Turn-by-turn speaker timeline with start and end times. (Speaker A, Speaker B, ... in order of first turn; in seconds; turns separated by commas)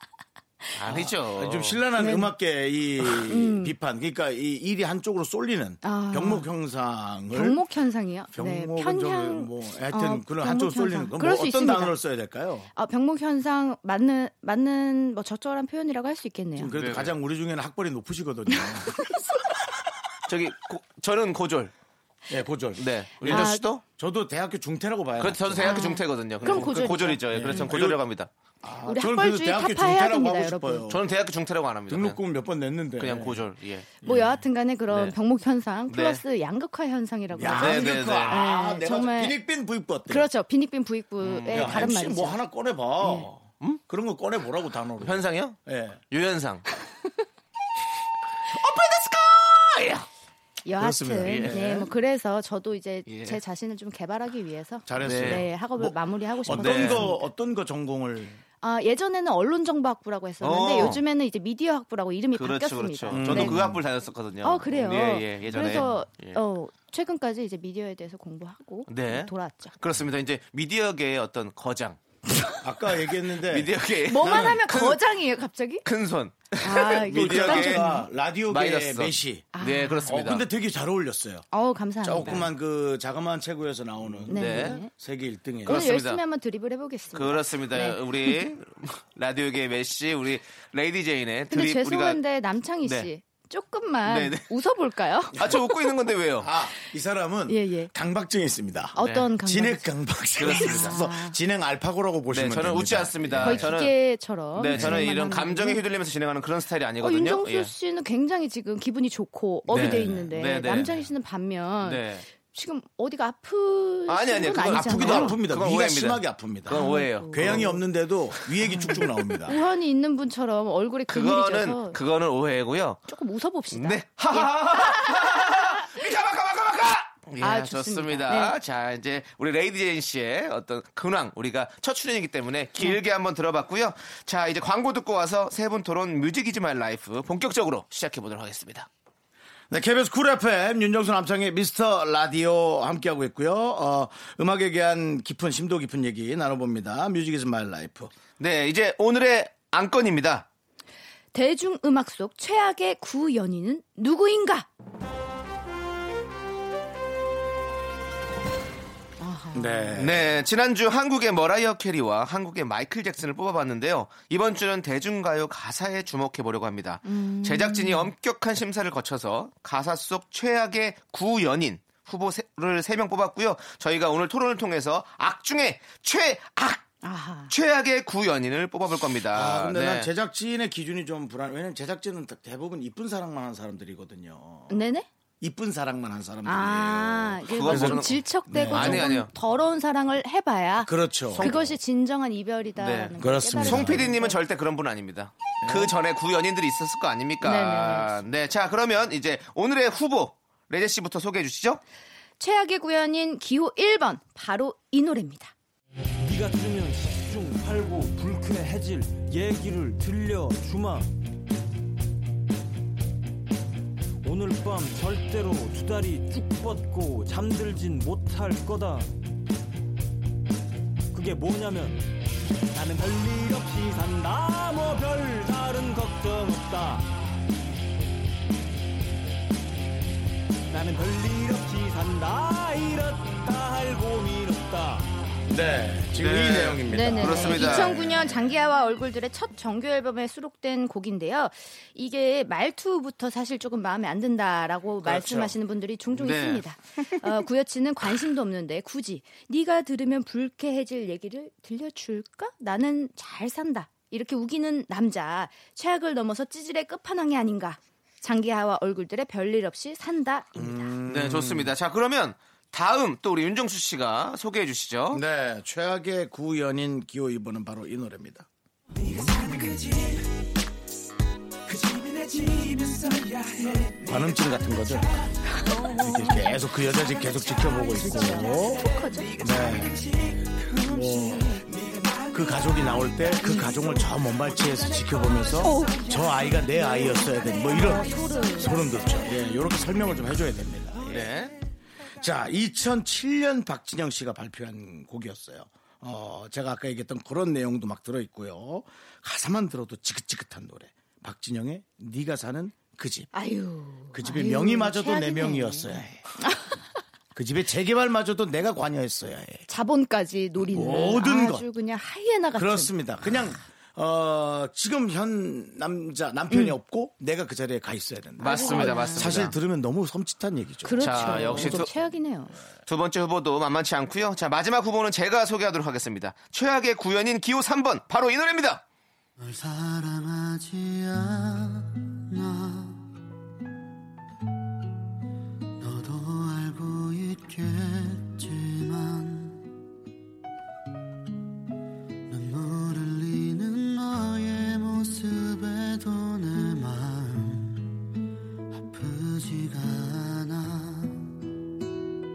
Speaker A: 0.7-1.8, Speaker B: 0.9-7.6, Speaker C: 2.0-2.3, Speaker C: 3.3-3.7, Speaker C: 5.8-6.5, Speaker C: 7.3-11.9, Speaker B: 8.3-12.7, Speaker C: 12.7-16.7, Speaker B: 16.6-19.1, Speaker A: 16.7-17.1, Speaker A: 20.2-21.7, Speaker B: 22.3-25.9, Speaker A: 22.8-23.8, Speaker C: 23.2-23.6, Speaker A: 25.2-28.3, Speaker C: 25.6-27.7, Speaker B: 26.4-26.7, Speaker B: 27.3-28.0, Speaker B: 28.6-31.0, Speaker C: 28.8-30.9, Speaker A: 30.9-32.2, Speaker B: 31.9-33.4, Speaker A: 33.0-34.0, Speaker C: 34.0-39.4, Speaker B: 34.0-34.3, Speaker A: 34.9-35.1, Speaker A: 35.9-36.2, Speaker B: 37.3-40.3, Speaker A: 37.5-38.5, Speaker C: 40.1-42.4, Speaker A: 41.2-41.9, Speaker B: 41.5-46.0, Speaker C: 43.0-43.3, Speaker A: 45.0-45.6, Speaker A: 46.1-46.6, Speaker A: 48.5-50.0, Speaker C: 50.6-57.2, Speaker B: 50.8-51.9, Speaker A: 51.2-51.7, Speaker A: 53.0-53.4, Speaker B: 54.9-58.4, Speaker A: 55.0-55.4, Speaker A: 56.5-57.1, Speaker C: 58.6-63.6, Speaker A: 60.4-61.0, Speaker A: 62.3-66.4, Speaker B: 63.1-63.8, Speaker C: 64.4-69.7, Speaker A: 68.9-72.0, Speaker B: 72.6-74.6, Speaker A: 73.4-75.0, Speaker C: 74.1-75.8, Speaker A: 75.8-77.9, Speaker C: 76.6-78.0, Speaker B: 76.7-79.5, Speaker A: 78.5-80.5, Speaker C: 79.5-80.2, Speaker B: 80.1-81.4, Speaker C: 81.5-82.5, Speaker B: 82.0-85.8, Speaker A: 84.1-84.8, Speaker C: 84.3-84.9, Speaker C: 85.7-88.4, Speaker A: 85.7-86.2, Speaker A: 87.1-92.2, Speaker C: 91.5-95.9, Speaker A: 92.8-93.1, Speaker A: 94.0-94.5, Speaker A: 95.3-96.5, Speaker B: 96.4-103.7, Speaker C: 97.5-97.9, Speaker C: 99.0-101.3, Speaker A: 99.0-99.3, Speaker A: 100.4-101.0, Speaker A: 102.3-104.0, Speaker C: 103.4-105.8, Speaker A: 104.5-107.7, Speaker B: 104.7-105.0, Speaker C: 107.0-115.4, Speaker A: 109.7-111.0, Speaker B: 109.7-110.3, Speaker A: 111.8-112.2, Speaker A: 114.1-117.8, Speaker B: 114.7-119.6, Speaker C: 116.7-117.7, Speaker A: 118.4-119.4, Speaker C: 118.7-122.0, Speaker A: 121.1-123.1, Speaker C: 123.1-126.0, Speaker A: 123.7-138.9, Speaker C: 127.4-128.6, Speaker B: 139.7-148.1, Speaker A: 148.4-150.5, Speaker C: 151.3-154.7, Speaker C: 159.2-160.0, Speaker B: 159.5-160.3, Speaker A: 160.0-176.8, Speaker C: 167.0-168.1, Speaker C: 177.0-177.5, Speaker A: 177.5-180.1, Speaker B: 179.3-184.8, Speaker C: 184.7-185.1, Speaker B: 185.4-189.1, Speaker C: 186.4-194.4, Speaker A: 187.5-189.3, Speaker B: 190.8-191.5, Speaker A: 191.3-191.8, Speaker A: 192.8-201.8, Speaker B: 193.2-194.1, Speaker B: 195.6-195.9, Speaker C: 197.4-198.1, Speaker C: 202.4-205.5, Speaker D: 206.2-211.1, Speaker D: 214.2-219.1, Speaker D: 221.1-222.1, Speaker D: 222.7-227.1, Speaker D: 230.7-235.1, Speaker B: 235.5-238.4, Speaker A: 236.2-238.3, Speaker C: 236.9-260.9, Speaker B: 245.0-245.6, Speaker A: 246.1-246.6, Speaker B: 260.6-261.7, Speaker A: 261.1-265.2, Speaker B: 265.1-268.5, Speaker B: 269.1-269.5, Speaker B: 273.9-275.2, Speaker C: 275.4-276.5, Speaker B: 275.8-280.2, Speaker C: 277.7-279.4, Speaker B: 280.8-281.6, Speaker B: 282.3-291.3, Speaker C: 283.4-283.8, Speaker C: 285.6-289.0, Speaker A: 291.1-291.5, Speaker B: 292.1-303.3, Speaker C: 303.3-306.8, Speaker B: 304.1-306.2, Speaker B: 307.3-309.6, Speaker C: 309.7-312.9, Speaker B: 310.6-311.6, Speaker B: 312.5-321.8, Speaker A: 318.4-319.5, Speaker C: 318.4-319.4, Speaker C: 320.8-322.5, Speaker A: 321.0-321.9, Speaker A: 322.9-328.8, Speaker E: 329.4-333.0, Speaker E: 335.8-339.6, Speaker E: 342.3-347.8, Speaker E: 348.9-351.2